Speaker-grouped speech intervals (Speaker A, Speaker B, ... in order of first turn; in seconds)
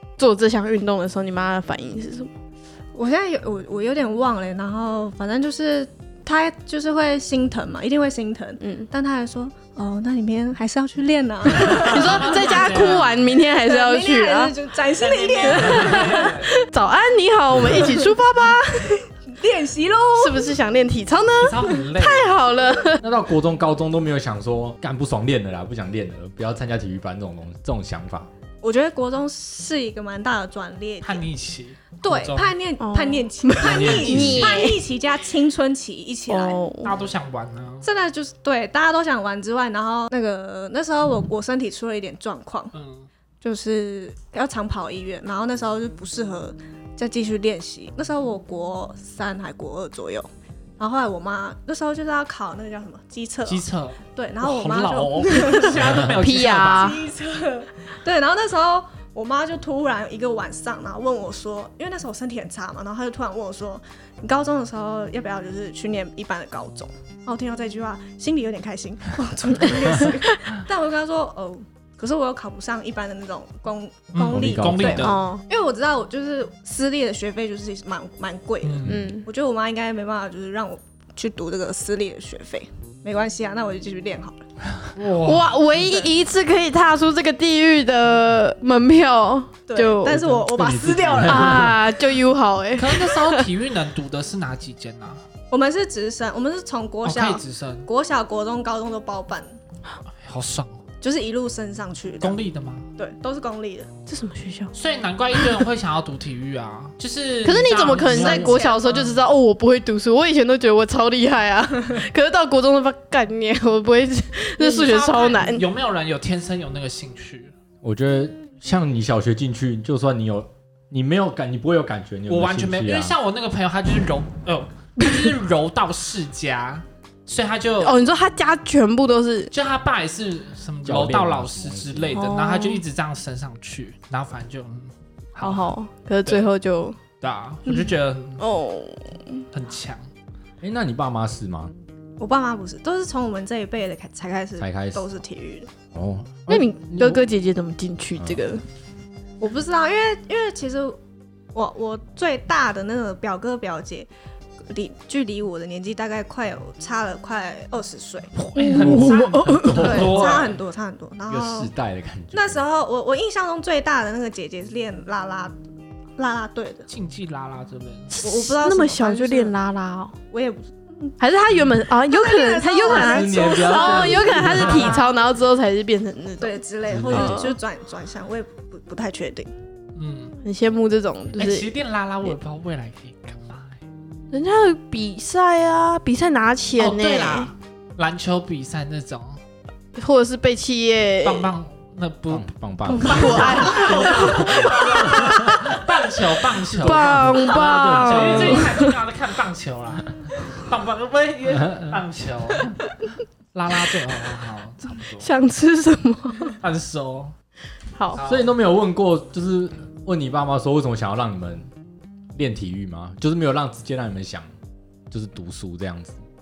Speaker A: 0.2-2.3, 8.6-8.9, 11.5-14.5, 15.4-19.1, 20.2-23.0, 32.8-34.8, 36.3-37.0, 56.2-57.0, 75.0-75.4, 78.9-79.3, 85.2-90.3, 91.2-93.5, 104.1-104.7, 107.4-115.7, 127.8-129.5, 132.1-132.8, 135.4-137.0, 138.4-139.4, 146.5-148.7, 158.6-159.8, 168.1-170.2, 171.2-177.5, 180.4-181.7, 184.3-187.5, 190.0-191.5, 192.9-195.8, 196.8-198.9, 205.2-206.6, 208.0-208.2
Speaker B: 2.9-16.4, 17.7-18.2, 19.3-20.5, 28.6-31.2, 32.0-36.6, 37.8-42.7, 43.4-53.6, 54.1-56.1, 56.7-84.5, 85.7-86.1, 89.7-91.7, 95.5-99.6, 101.0-102.4, 103.0-103.9, 108.3-109.0, 142.2-145.7, 149.4-151.0, 151.5-154.1, 154.7-158.3, 159.8-161.7, 162.3-165.6, 166.2-166.9, 168.2-169.5, 170.3-171.1, 172.1-175.1, 176.4-179.5, 193.2-193.8
Speaker C: 11.6-13.2, 14.9-16.6, 21.4-22.4, 31.0-32.5, 36.8-37.9, 42.7-43.1, 53.5-57.0, 74.1-75.2, 78.6-79.0, 85.0-85.5, 92.8-95.2, 97.0-97.9, 100.2-100.8, 102.2-102.9, 104.7-109.2, 114.6-117.5, 122.3-128.0, 129.5-135.7, 137.2-138.4, 139.5-140.1, 158.3-160.6, 166.9-168.1, 180.0-180.3, 181.4-183.8, 186.8-189.4, 191.2-202.8, 203.5-205.3, 206.6-207.3, 208.1-208.5
Speaker D: 23.0-28.3, 33.6-34.7, 74.3-75.1, 90.2-91.8, 108.1-108.6, 117.8-123.2, 130.8-132.2, 140.6-141.7, 144.6-145.0, 145.9-147.3, 148.2-148.4, 158.8-160.5, 161.3-162.6, 172.8-175.0, 176.9-177.5, 192.3-195.8, 196.8-198.8, 201.6-202.0, 208.2-211.7, 212.3-214.5, 215.1-216.2